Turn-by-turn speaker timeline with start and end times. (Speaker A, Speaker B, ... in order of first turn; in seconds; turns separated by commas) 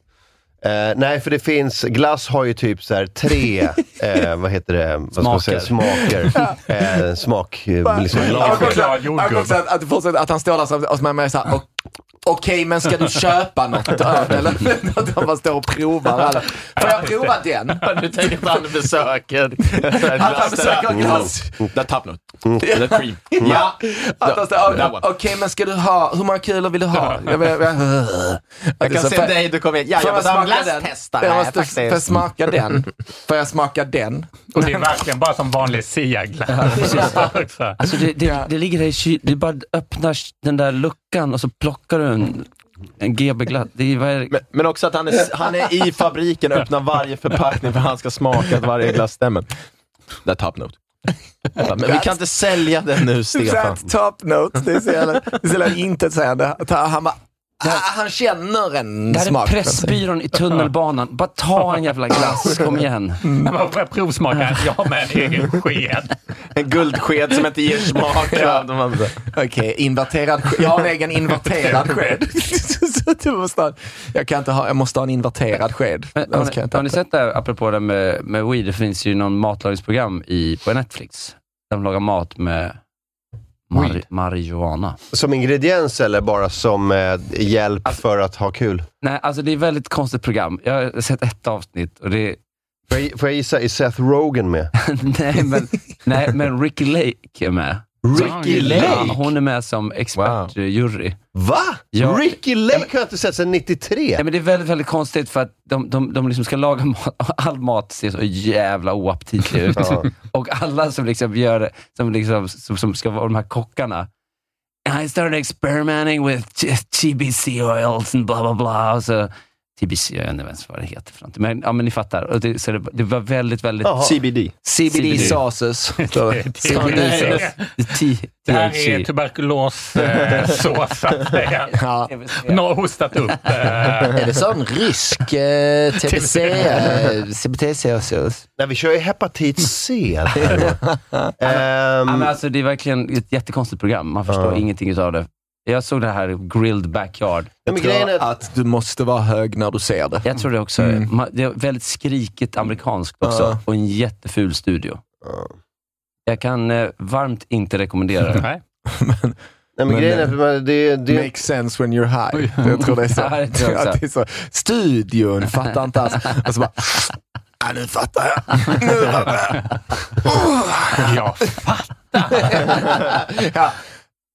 Speaker A: 0.6-8.9, Speaker B: 5.2-5.8, Speaker C: 7.8-11.7, Speaker D: 8.1-9.6, Speaker C: 12.2-18.0, Speaker D: 16.8-17.3, Speaker E: 17.8-25.1, Speaker C: 19.7-21.5, Speaker A: 20.9-21.3, Speaker A: 22.4-22.7, Speaker C: 22.6-34.7, Speaker E: 28.8-32.2, Speaker D: 34.5-37.8, Speaker B: 36.5-42.5, Speaker B: 43.0-44.3, Speaker E: 44.3-49.5, Speaker E: 50.2-50.8, Speaker E: 51.6-53.8, Speaker C: 51.6-52.2, Speaker C: 53.3-59.9, Speaker B: 59.1-63.2, Speaker D: 63.4-66.1, Speaker E: 66.5-69.2, Speaker C: 68.2-68.6, Speaker C: 69.2-77.0, Speaker B: 76.2-82.8, Speaker B: 83.7-85.0, Speaker A: 85.1-88.8, Speaker B: 89.0-92.4, Speaker A: 92.9-94.7, Speaker B: 94.8-101.2, Speaker A: 98.0-99.1, Speaker D: 98.1-99.0, Speaker E: 98.7-99.2, Speaker E: 100.1-100.5, Speaker A: 101.3-104.2, Speaker B: 101.9-102.8, Speaker B: 104.2-114.1, Speaker A: 109.7-110.1, Speaker B: 114.8-124.0, Speaker A: 123.8-124.1, Speaker E: 124.0-124.5, Speaker C: 124.6-127.5, Speaker B: 124.9-125.3, Speaker D: 126.0-127.5, Speaker E: 126.7-127.4, Speaker B: 127.8-129.1, Speaker D: 128.4-131.7, Speaker C: 131.8-132.1, Speaker B: 132.1-132.6, Speaker D: 132.4-134.2, Speaker C: 134.1-138.4, Speaker D: 136.1-136.8, Speaker B: 138.0-138.3, Speaker A: 138.6-140.8, Speaker C: 140.4-141.2, Speaker A: 141.4-142.3, Speaker B: 141.4-147.5, Speaker A: 144.3-144.6, Speaker A: 147.6-148.2, Speaker C: 147.7-151.1, Speaker B: 150.2-155.0, Speaker C: 153.2-153.6, Speaker A: 155.2-155.5, Speaker B: 156.3-158.4, Speaker D: 158.3-158.6, Speaker C: 158.9-160.3, Speaker A: 159.8-161.3, Speaker C: 161.1-169.6, Speaker D: 162.4-162.7, Speaker B: 163.1-164.0, Speaker C: 170.2-171.1, Speaker D: 170.9-172.9, Speaker C: 172.3-173.7